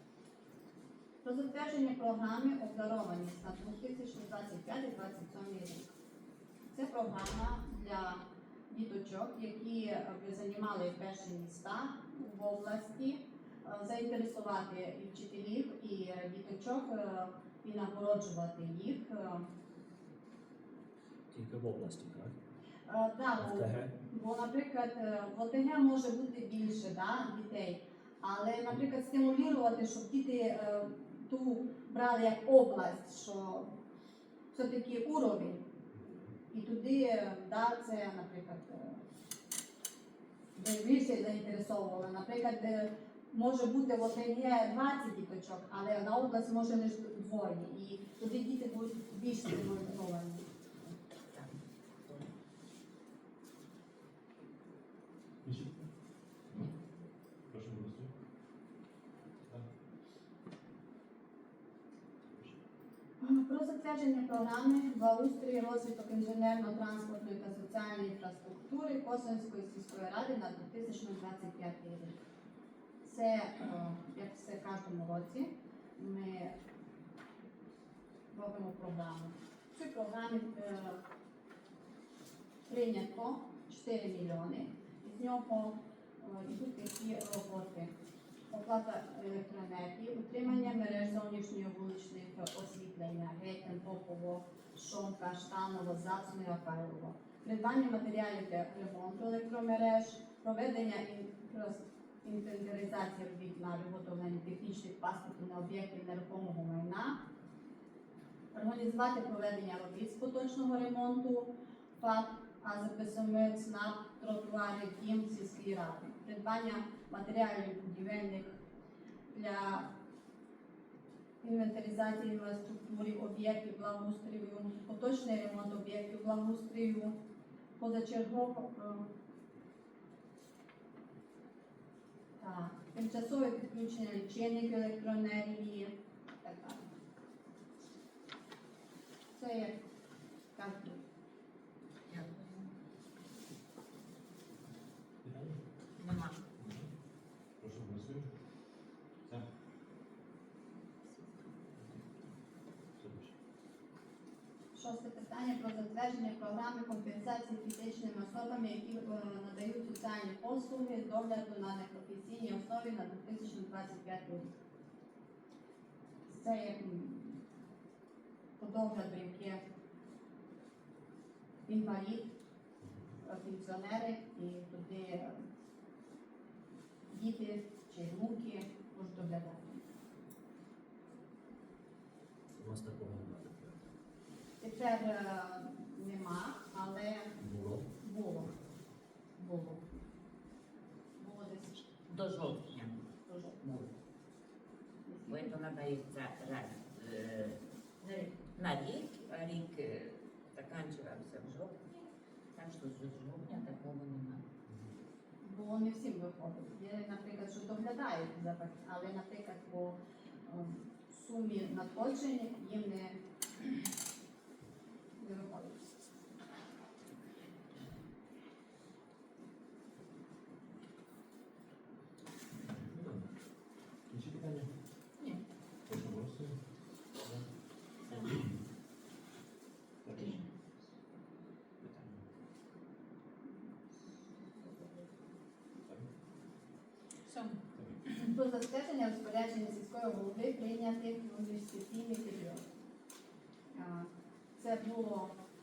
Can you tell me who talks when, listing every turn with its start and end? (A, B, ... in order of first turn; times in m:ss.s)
0:01.2-0:05.9 A
0:06.7-0:19.5 A
0:21.3-0:22.3 B
0:22.9-0:33.7 A
0:23.4-0:23.9 B
0:34.5-0:35.6 A
0:36.5-0:39.0 A
0:40.6-0:50.9 A
0:52.0-0:52.3 C
0:55.4-0:55.9 D
0:57.5-0:58.1 D
1:03.2-1:12.2 A
1:13.0-1:16.6 A
1:18.3-1:21.0 A
1:22.7-1:27.9 A
1:28.5-1:47.2 A
1:48.5-1:58.6 A
1:59.3-1:59.9 A
2:01.4-2:07.2 A
2:07.8-2:09.0 A
2:12.4-2:16.8 A
2:19.3-2:19.8 A
2:20.5-2:21.0 A
2:22.1-2:22.7 C
2:25.2-2:25.6 D
2:26.0-2:26.3 C
2:26.6-2:26.9 D
2:27.6-2:28.3 D
2:31.8-2:32.2 D
2:33.0-2:33.3 D
2:34.7-2:44.5 A
2:46.3-2:47.4 A
2:48.6-2:49.6 A
2:51.6-2:52.4 A
2:53.2-2:55.4 A
2:57.1-2:59.8 A
3:02.6-3:03.8 B
3:04.6-3:07.4 A
3:07.4-3:07.8 B
3:08.0-3:08.5 A
3:09.4-3:09.8 A
3:11.2-3:11.9 A
3:12.0-3:13.0 C
3:13.3-3:13.6 A
3:13.6-3:13.9 C
3:15.0-3:15.5 A
3:15.3-3:22.0 C
3:22.5-3:24.4 C
3:25.4-3:33.2 A
3:35.2-3:35.9 A
3:42.6-3:43.3 D
3:44.1-3:44.7 D
3:45.9-3:46.5 D
3:48.1-3:48.5 D
3:50.0-3:50.4 D
3:50.2-3:50.4 C
3:51.8-3:52.2 D
3:54.6-3:55.0 A
3:55.8-3:56.1 D
3:57.7-3:58.1 D
3:58.2-4:02.6 A
4:03.7-4:05.4 A